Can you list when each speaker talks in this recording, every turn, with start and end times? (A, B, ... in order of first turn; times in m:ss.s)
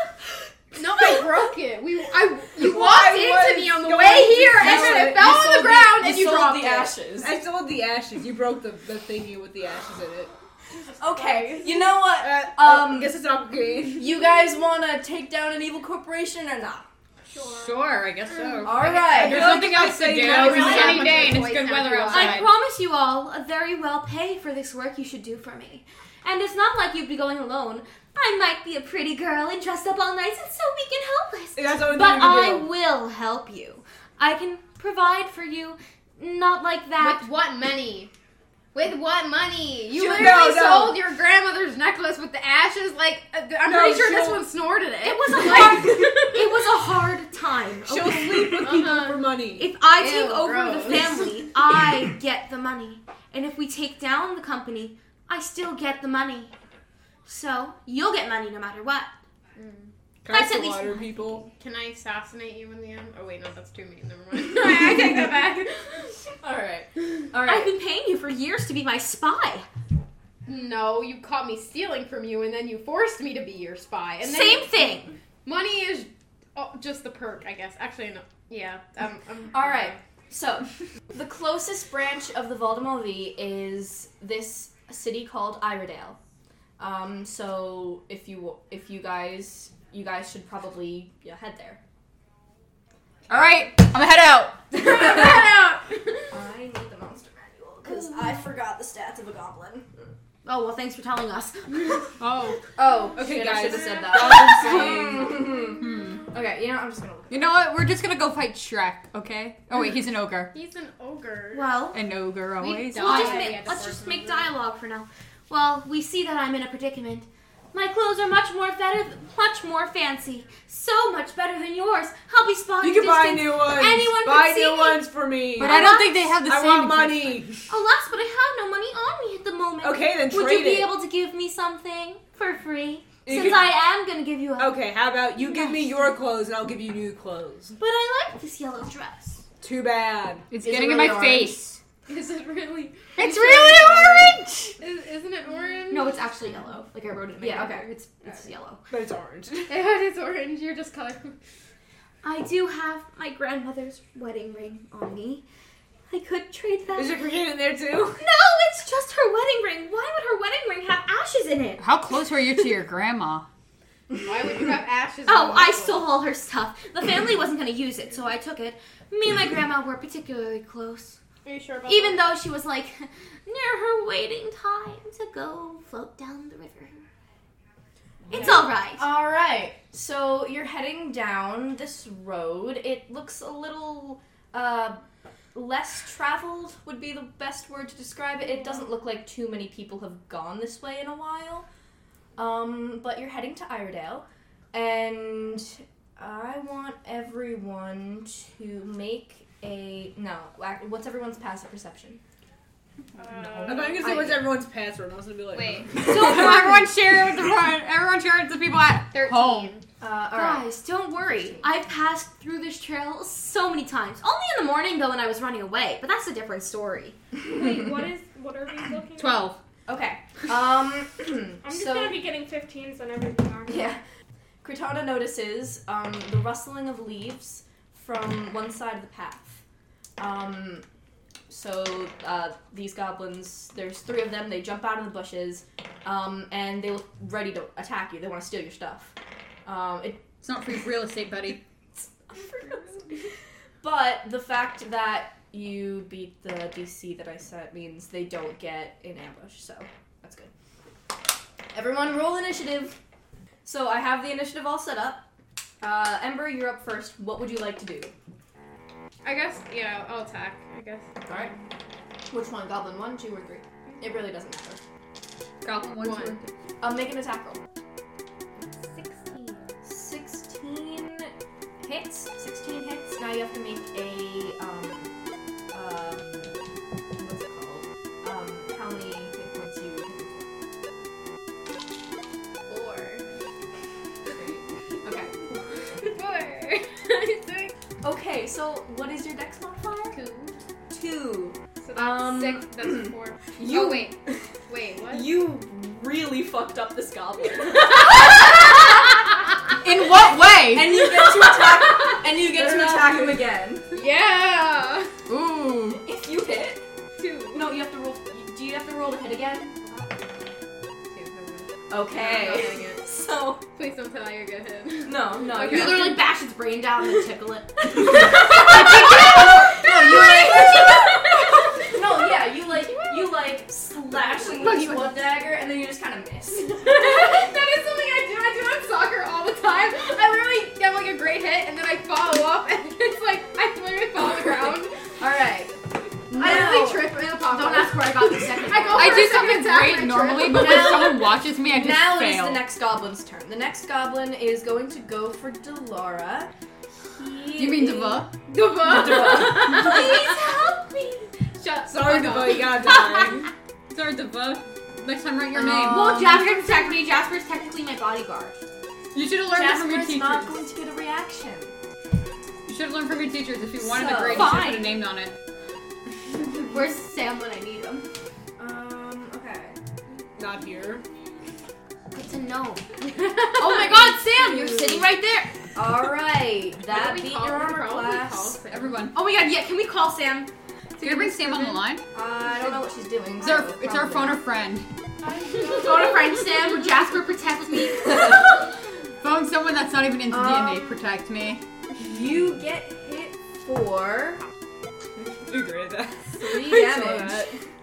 0:00.8-0:07.0 A
0:02.6-0:05.4 B
0:04.6-0:07.4 C
0:07.2-0:10.3 B
0:11.0-0:13.2 C
0:12.0-0:14.2 B
0:13.9-0:16.9 C
0:17.2-0:17.9 D
0:17.5-0:22.5 E
0:18.6-0:19.5 C
0:19.1-0:21.5 B
0:20.1-0:22.4 A
0:22.1-0:37.3 F
0:31.6-0:32.7 B
0:37.0-0:38.1 A
0:38.8-0:46.6 A
0:39.9-0:41.0 B
0:43.6-0:44.5 B
0:45.0-0:49.0 F
0:47.8-0:49.7 B
0:48.5-0:49.3 A
0:49.6-0:56.5 F
0:50.0-0:51.3 A
0:57.3-0:59.1 F
0:59.6-0:59.9 A
1:00.2-1:01.5 B
1:00.3-1:01.5 F
1:01.6-1:05.9 A
1:04.6-1:05.6 C
1:06.4-1:07.7 C
1:07.4-1:09.7 F
1:10.5-1:20.0 A
1:14.2-1:15.2 F
1:19.5-1:26.2 C
1:26.8-1:31.8 C
1:33.3-1:34.7 E
1:34.7-1:36.2 A
1:34.8-1:35.6 C
1:36.3-1:40.0 C
1:37.9-1:38.2 F
1:40.4-1:42.0 F
1:42.2-1:42.6 E
1:42.8-1:47.6 C
1:43.2-1:45.4 B
1:45.8-1:46.3 E
1:47.3-1:50.5 E
1:50.5-1:51.8 A
1:51.5-1:52.1 F
1:51.9-1:53.5 E
1:52.6-1:54.5 A
1:53.0-2:06.4 F
2:02.8-2:07.7 B
2:05.6-2:07.5 E
2:07.7-2:16.2 F
2:09.8-2:11.0 B
2:13.2-2:13.8 B
2:14.6-2:17.8 B
2:17.8-2:19.4 F
2:19.6-2:20.5 B
2:20.5-2:21.8 E
2:20.6-2:21.7 C
2:22.1-2:26.2 A
2:23.2-2:24.8 E
2:25.9-2:28.8 F
2:27.4-2:27.9 C
2:28.9-2:29.8 B
2:29.7-2:31.4 A
2:32.2-2:35.4 F
2:36.1-2:37.3 F
2:36.9-2:38.2 B
2:38.2-2:41.8 F
2:41.8-2:43.5 E
2:44.2-2:46.2 A
2:45.3-2:51.2 F
2:51.4-2:52.3 A
2:51.9-2:57.0 F
2:58.3-2:58.7 A
2:58.3-3:05.0 C
2:58.3-2:59.1 F
3:05.5-3:11.7 C
3:12.4-3:22.2 C
3:23.2-3:24.0 A
3:23.2-3:24.1 D
3:23.7-3:25.9 B
3:24.0-3:24.5 C
3:25.5-3:25.9 A
3:26.0-3:29.8 E
3:26.1-3:26.9 F
3:29.1-3:29.9 A
3:30.0-3:31.7 C
3:30.3-3:37.2 F
3:37.4-3:39.5 D
3:39.2-3:39.6 E
3:39.9-3:42.2 C
3:41.6-3:43.9 D
3:43.7-3:44.0 C
3:44.6-3:49.6 C
3:50.2-3:50.9 C
3:51.5-3:59.2 C
3:59.7-4:00.3 C
4:00.4-4:01.6 E
4:02.0-4:03.2 C
4:03.8-4:10.5 C
4:11.7-4:13.0 C
4:13.6-4:15.3 C
4:15.8-4:18.1 C
4:19.2-4:21.6 A
4:21.3-4:21.5 C
4:22.3-4:24.8 C
4:23.9-4:24.2 A
4:25.6-4:26.5 E
4:26.0-4:26.4 A
4:26.8-4:27.6 C
4:28.6-4:29.8 A
4:29.9-4:31.3 C
4:31.8-4:35.1 C
4:35.7-4:36.5 C
4:37.2-4:40.5 C
4:42.7-4:43.2 A
4:44.3-4:44.6 A
4:44.3-4:45.4 C
4:46.0-4:47.7 A
4:48.0-4:50.2 C
4:50.1-4:50.6 A
4:50.9-4:54.5 C
4:51.8-4:54.1 A
4:54.7-4:55.4 A
4:55.1-4:58.5 C
4:59.8-5:01.1 E
4:59.9-5:04.0 C
5:02.5-5:03.4 B
5:03.9-5:05.1 A
5:05.3-5:06.0 E
5:05.7-5:06.8 C
5:07.2-5:07.7 A
5:07.5-5:09.8 C
5:11.1-5:13.0 A
5:11.9-5:13.6 C
5:13.8-5:15.9 A
5:15.0-5:16.2 C
5:15.5-5:21.3 F
5:18.5-5:21.2 C
5:20.8-5:21.2 A
5:21.9-5:26.9 C
5:24.6-5:25.2 E
5:26.7-5:35.0 A
5:34.2-5:37.2 C
5:36.4-5:39.4 F
5:36.4-5:41.3 A
5:38.9-5:42.6 E
5:40.5-5:46.5 C
5:47.2-5:48.3 C
5:47.5-5:48.4 E
5:48.5-5:50.4 A
5:48.8-5:49.8 C
5:49.1-5:51.3 F
5:51.6-5:53.1 A
5:51.9-5:53.5 B
5:53.9-5:56.5 E
5:55.5-5:58.6 F
5:59.1-6:00.7 E
5:59.5-6:01.7 C
6:02.7-6:05.4 E
6:03.8-6:04.8 C
6:04.3-6:05.0 F
6:06.5-6:08.1 F
6:08.6-6:09.8 C
6:10.4-6:11.0 B
6:12.1-6:13.0 F
6:13.1-6:14.2 A
6:13.5-6:15.5 F
6:14.3-6:15.0 C
6:15.8-6:18.6 C
6:16.9-6:19.1 A
6:18.7-6:19.2 E
6:19.1-6:21.8 F
6:21.0-6:22.1 E
6:22.1-6:24.4 C
6:23.4-6:24.9 E
6:25.2-6:26.5 D
6:25.6-6:28.5 F
6:29.2-6:31.6 E
6:30.3-6:30.8 C
6:32.0-6:34.4 C
6:35.2-6:37.5 B
6:36.4-6:37.6 C